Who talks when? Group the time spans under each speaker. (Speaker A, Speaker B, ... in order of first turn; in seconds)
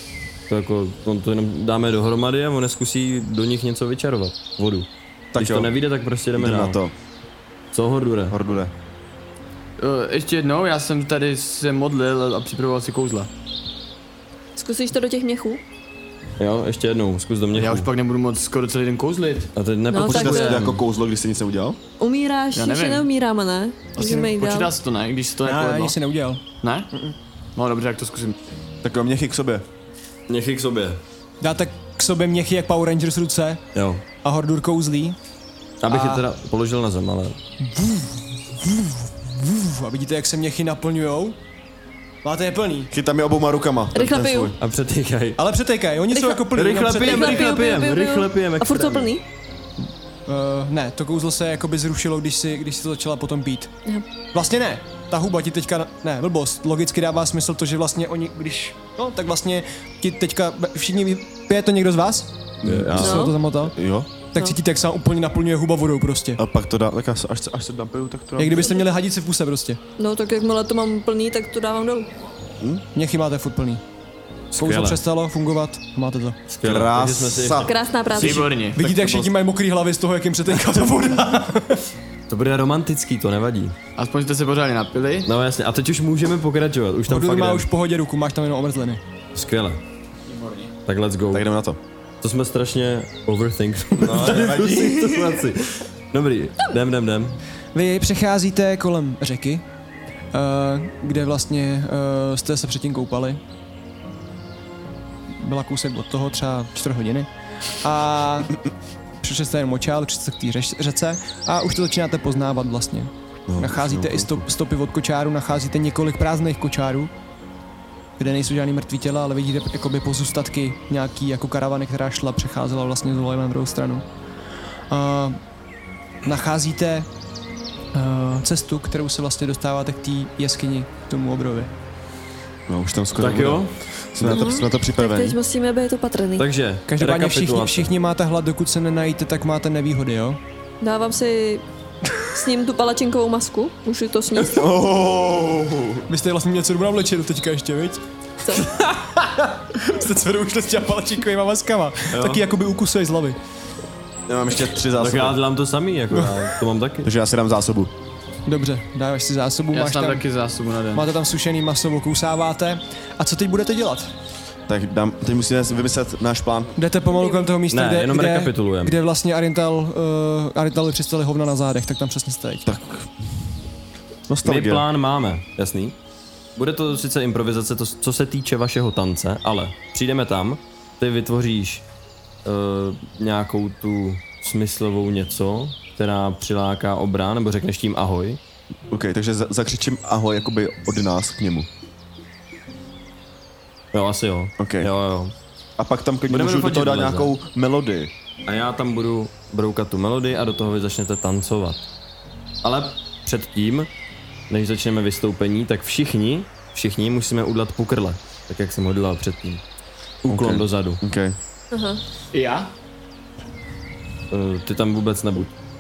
Speaker A: 0.5-6.8, 7.7-8.3, 16.4-17.9, 19.5-20.8, 30.3-31.0, 33.7-34.0, 35.8-37.4, 44.6-45.4, 46.5-49.1, 62.6-63.2, 74.5-75.0, 76.5-77.8, 82.3-83.8, 85.2-87.7, 89.3-89.8, 90.8-91.4, 92.2-97.4, 133.2-134.4, 136.4-137.9, 155.0-157.1, 167.7-168.9, 174.4-175.9, 176.6-181.8, 182.4-188.4, 193.9-195.3, 196.3-197.3, 198.4-201.9, 202.6-203.9, 204.5-209.6, 210.2-211.0, 214.3-215.5
Speaker B: 5.3-5.8, 6.3-6.9, 8.3-8.7, 19.9-21.8, 28.8-29.6, 42.9-44.5, 62.6-64.1, 66.4-68.7, 76.6-78.4, 91.3-91.8, 94.0-95.4, 113.5-114.5, 132.7-135.4, 144.3-146.1, 152.1-152.4, 154.3-155.4, 157.0-157.9, 164.7-166.7, 172.7-173.1, 174.3-174.9, 188.9-191.7, 194.6-194.9, 195.8-198.1, 210.2-211.4
Speaker C: 9.8-13.3, 17.5-19.5, 22.5-23.1, 24.0-25.9, 26.6-26.9, 27.6-28.4, 78.1-79.3, 84.0-85.3, 90.3-90.7, 159.7-161.1, 212.3-212.7
Speaker D: 14.6-15.6, 19.9-20.6, 22.0-24.7, 43.9-44.5, 46.1-49.2, 63.0-63.3, 70.0-72.1, 77.7-78.5, 134.2-136.5, 140.8-141.6, 142.2-144.6, 167.1-167.5, 211.7-212.0
Speaker E: 25.4-27.1, 31.4-33.6, 34.2-35.2, 35.9-36.2, 37.6-41.4, 42.2-42.9, 45.4-47.6, 50.3-53.7, 54.3-62.3, 62.9-63.8, 64.3-66.4, 68.4-69.8, 72.9-73.8, 74.5-76.4, 78.7-81.8, 87.1-89.0, 97.7-99.6, 100.3-103.4, 105.4-107.3, 107.8-108.5, 109.2-117.1, 118.2-124.0, 124.9-125.4, 126.2-127.1, 127.9-131.7, 136.9-140.4, 146.1-148.0, 148.5-153.4, 156.1-156.4, 158.5-160.2, 160.9-164.1, 166.8-172.8